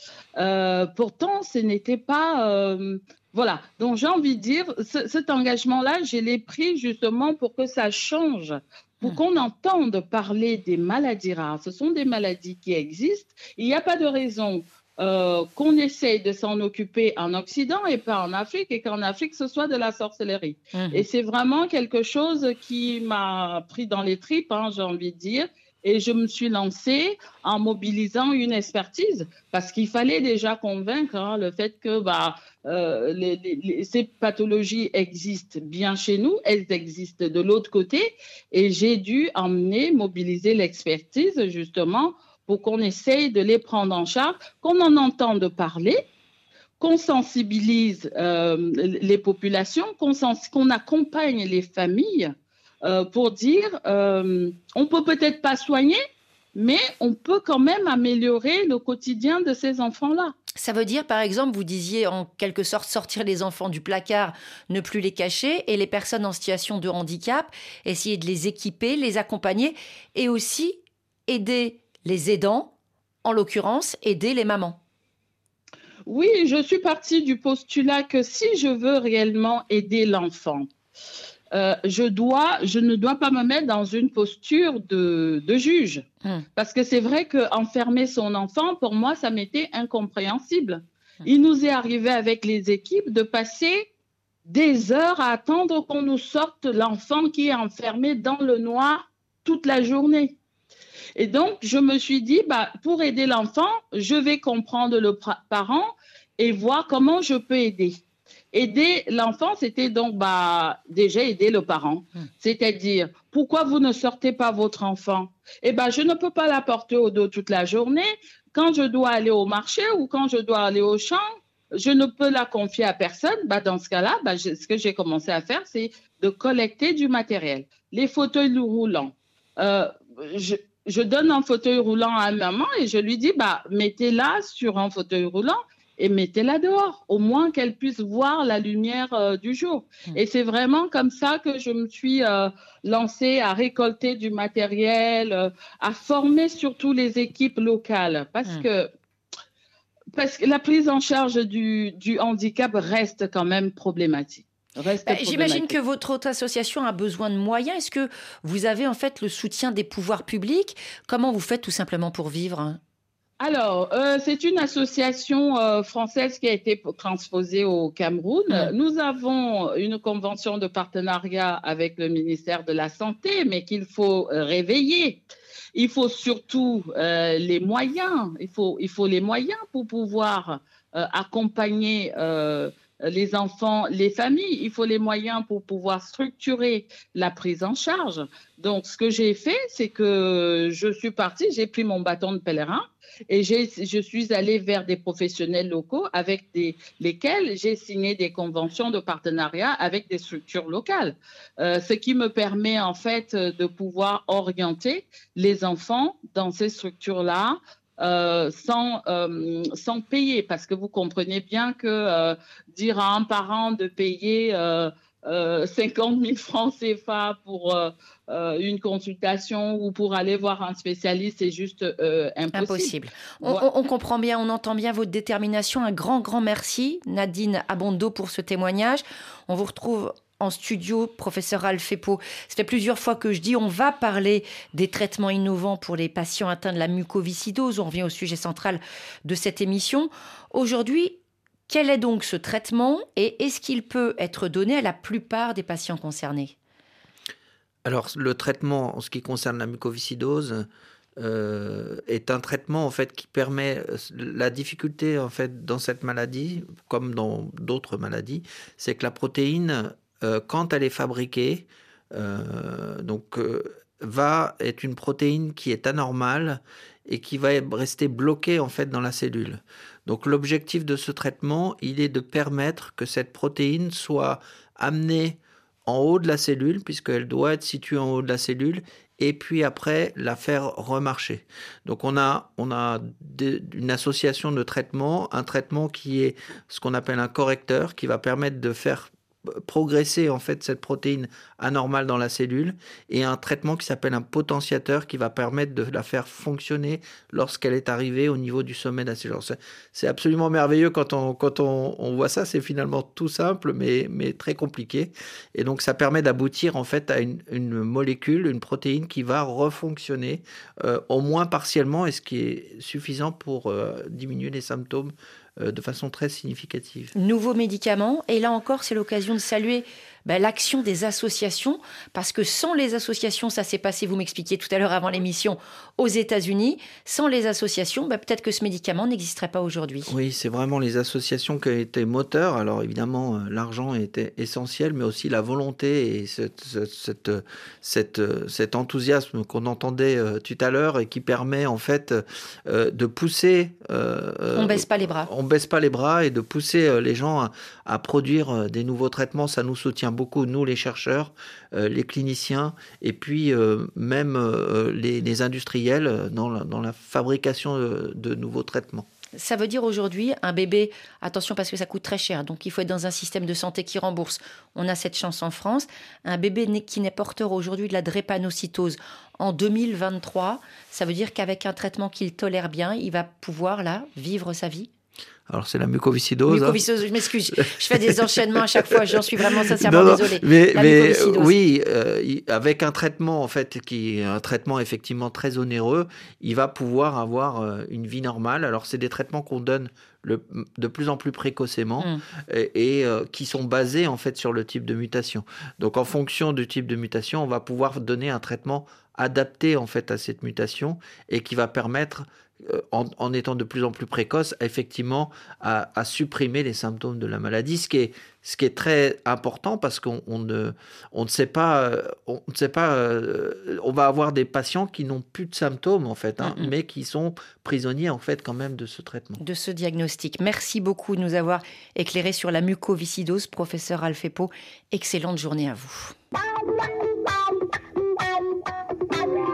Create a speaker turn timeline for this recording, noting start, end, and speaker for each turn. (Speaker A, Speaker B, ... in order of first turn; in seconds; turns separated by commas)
Speaker A: 0.4-46.0, Speaker B: 20.7-21.0, Speaker A: 46.8-56.0, Speaker A: 56.5-60.3, Speaker B: 60.5-72.7, Speaker B: 73.2-74.8, Speaker A: 76.1-80.7, Speaker A: 81.5-86.0, Speaker A: 86.6-93.9, Speaker A: 94.5-100.4, Speaker A: 101.2-108.0, Speaker A: 108.5-148.9, Speaker A: 150.1-155.7, Speaker B: 155.1-162.8, Speaker A: 163.4-175.2, Speaker A: 175.7-223.6, Speaker B: 222.5-241.2, Speaker B: 241.7-246.5, Speaker C: 247.8-250.7, Speaker C: 251.2-317.1, Speaker B: 317.1-330.1, Speaker C: 330.0-359.1, Speaker B: 344.5-345.3, Speaker B: 359.3-374.9, Speaker C: 375.5-376.8, Speaker B: 376.5-381.5, Speaker C: 377.6-419.4, Speaker B: 416.4-416.7, Speaker B: 419.4-426.1